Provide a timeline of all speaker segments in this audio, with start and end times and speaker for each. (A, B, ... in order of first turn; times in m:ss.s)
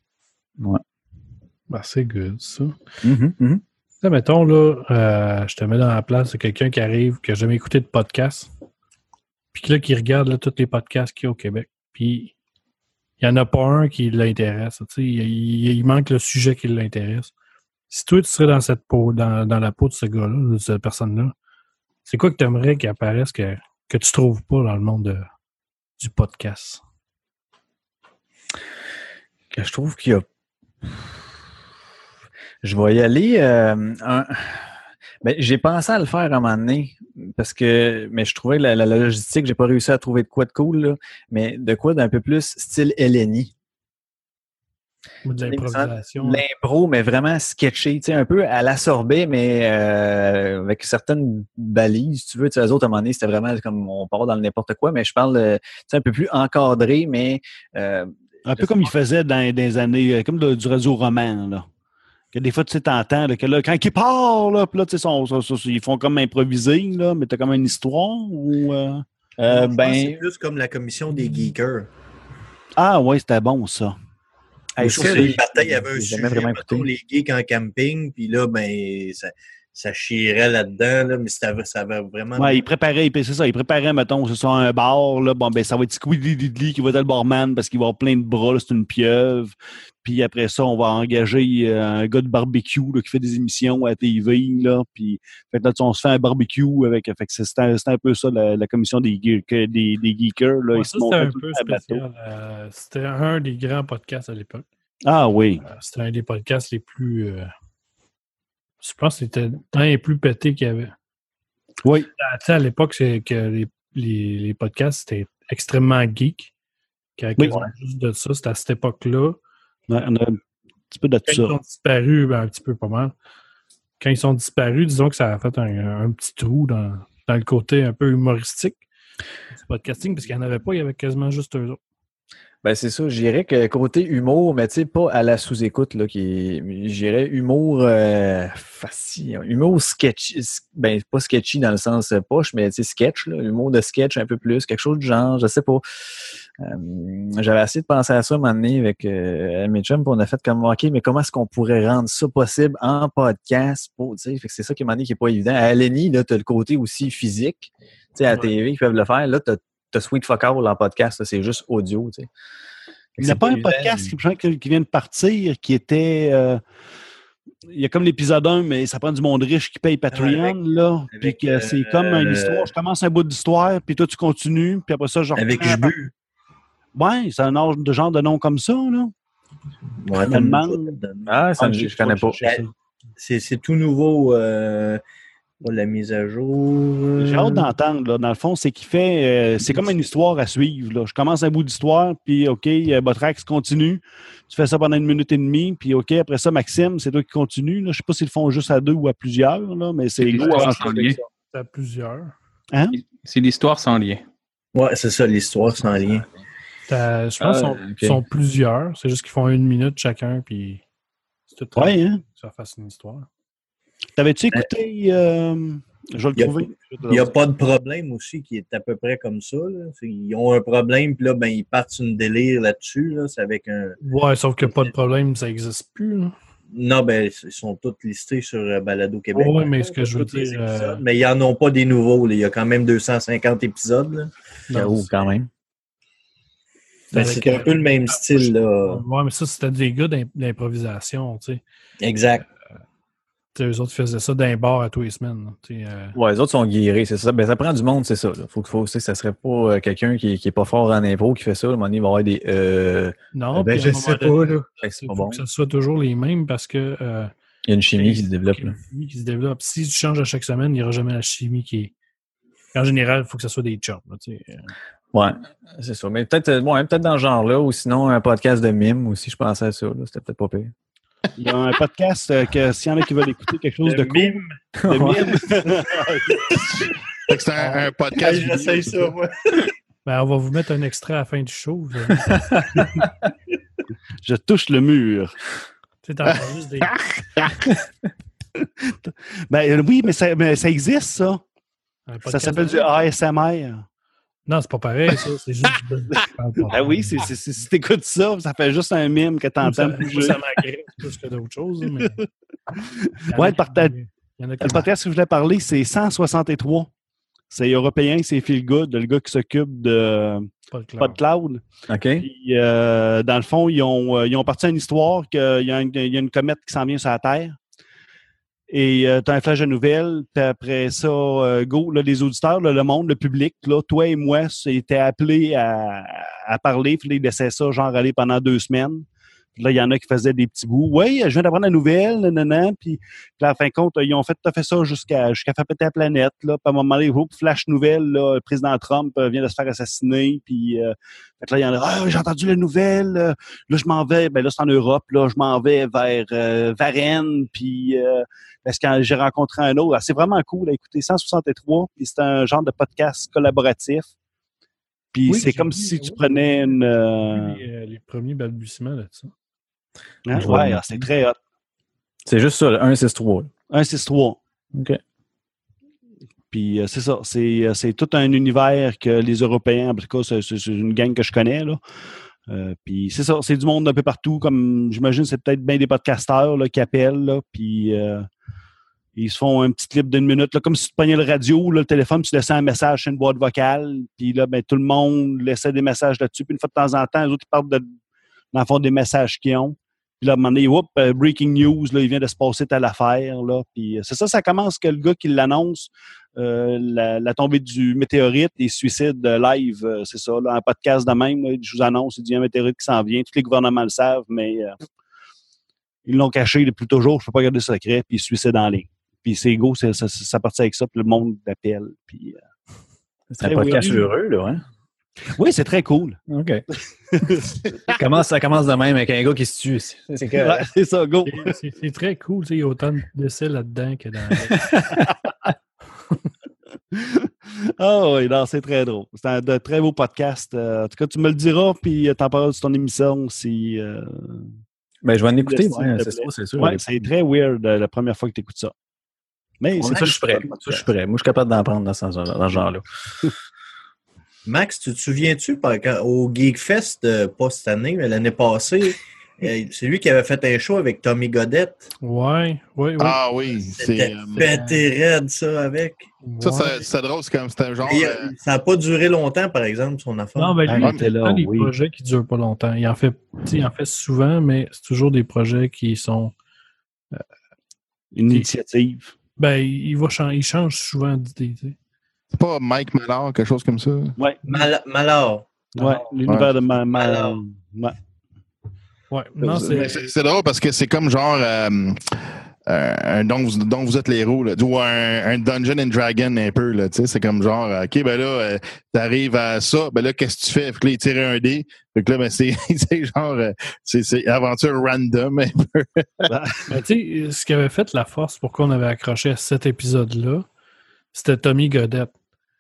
0:01.7-0:02.8 A
0:03.0-0:03.6 B
0:04.0-0:08.5 A
0:09.5-0:12.3 A
0:13.2-0:17.3 A
0:17.9-0:21.3 A
0:22.1-0:25.3 A
0:26.0-0:26.8 A
0:29.5-0:30.2 B
0:32.6-0:34.7 B
0:35.2-0:43.5 B
0:45.2-0:46.4 A
0:45.5-0:58.9 B
0:58.5-1:01.6 C
1:02.3-1:09.0 C
1:09.4-1:10.2 B
1:09.5-1:11.9 D
1:12.8-1:14.0 C
1:14.8-1:16.9 B
1:14.8-1:22.7 D
1:14.8-1:15.3 C
1:22.4-1:42.0 C
1:40.7-1:44.6 A
1:45.0-1:45.6 C
1:45.6-1:47.5 A
1:48.8-1:50.9 A
1:51.8-1:52.1 C
1:52.2-1:56.5 A
1:57.2-1:59.4 A
1:57.4-1:57.7 C
1:59.9-2:01.6 C
2:01.3-2:03.1 A
2:04.0-2:08.8 A
2:09.6-2:11.8 A
2:12.6-2:25.8 B
2:26.6-2:42.3 B
2:43.2-2:44.1 B
2:43.2-2:46.6 C
2:47.7-2:56.0 C
2:50.1-2:50.6 D
2:51.1-2:52.7 D
2:55.4-2:56.1 D
2:57.0-2:59.1 C
3:00.0-3:01.2 D
3:00.2-3:01.0 C
3:01.3-3:02.4 B
3:01.6-3:02.7 C
3:03.2-3:05.0 D
3:05.6-3:07.7 D
3:07.2-3:21.1 C
3:20.2-3:21.2 E
3:20.3-3:22.3 A
3:22.7-3:23.0 C
3:22.9-3:24.2 E
3:24.7-3:26.3 D
3:26.9-3:30.8 A
3:27.4-3:28.2 B
3:31.5-3:33.3 A
3:31.8-3:32.2 C
3:34.2-3:37.3 C
3:36.4-3:44.0 D
3:44.0-3:46.3 A
3:46.7-3:54.3 D
3:49.3-3:51.0 A
3:54.7-3:55.1 A
3:54.8-3:55.5 B
3:57.1-3:59.0 D
3:57.1-4:01.6 A
4:02.0-4:02.5 D
4:03.6-4:06.2 A
4:06.2-4:15.4 B
4:13.3-4:17.3 A
4:17.7-4:18.8 B
4:18.0-4:21.9 A
4:22.8-4:24.7 A
4:25.1-4:30.7 B
4:31.4-4:36.9 C
4:33.8-4:34.6 D
4:34.8-4:35.4 B
4:36.5-4:36.9 D
4:37.3-4:39.1 F
4:37.5-4:39.7 D
4:40.0-4:42.4 A
4:44.2-4:45.4 C
4:46.0-4:47.0 A
4:48.6-4:51.4 C
4:52.1-4:52.9 A
4:52.3-4:53.9 C
4:54.5-4:57.3 A
4:56.7-5:00.4 C
4:59.6-5:02.2 A
5:03.3-5:04.8 A
5:03.4-5:04.0 C
5:04.6-5:06.9 C
5:07.5-5:11.6 C
5:10.7-5:11.2 A
5:11.9-5:12.3 B
5:12.2-5:17.6 C
5:18.7-5:29.0 C
5:29.6-5:54.1 C
5:55.1-5:57.6 C
5:55.3-5:56.4 A
5:57.3-5:59.3 A
6:00.3-6:01.4 C
6:00.4-6:00.8 B
6:02.3-6:03.5 B
6:03.7-6:04.4 C
6:06.5-6:11.8 C
6:12.5-6:18.3 C
6:19.2-6:27.8 C
6:28.5-6:44.8 C
6:46.1-6:52.4 C
6:53.3-6:54.6 B
6:53.4-6:54.0 C
6:53.6-6:54.1 A
6:55.3-6:56.2 C
6:56.3-6:56.6 B
6:57.2-6:57.6 C
6:57.9-7:00.7 B
7:00.4-7:01.6 C
7:01.2-7:04.6 A
7:04.6-7:05.1 B
7:06.9-7:14.5 C
7:15.0-7:16.8 B
7:15.4-7:18.7 C
7:19.6-7:20.8 C
7:19.8-7:22.8 B
7:24.5-7:31.8 D
7:32.0-7:33.2 A
7:33.0-7:34.4 F
7:33.8-7:36.1 D
7:34.4-7:34.8 A
7:36.2-7:36.8 A
7:36.4-7:38.3 F
7:37.9-7:40.6 D
7:40.4-7:46.3 A
7:40.7-7:41.7 C
7:40.8-7:41.1 F
7:48.1-7:49.1 C
7:49.4-7:51.8 A
7:52.3-7:54.2 F
7:54.2-7:54.6 C
7:54.5-7:55.5 D
7:55.8-7:56.2 A
7:55.8-7:58.0 C
7:56.3-7:56.5 F
7:57.0-7:57.4 D
7:59.1-8:00.1 A
7:59.4-8:16.3 F
8:16.3-8:16.7 C
8:16.7-8:20.4 A
8:21.1-8:22.1 A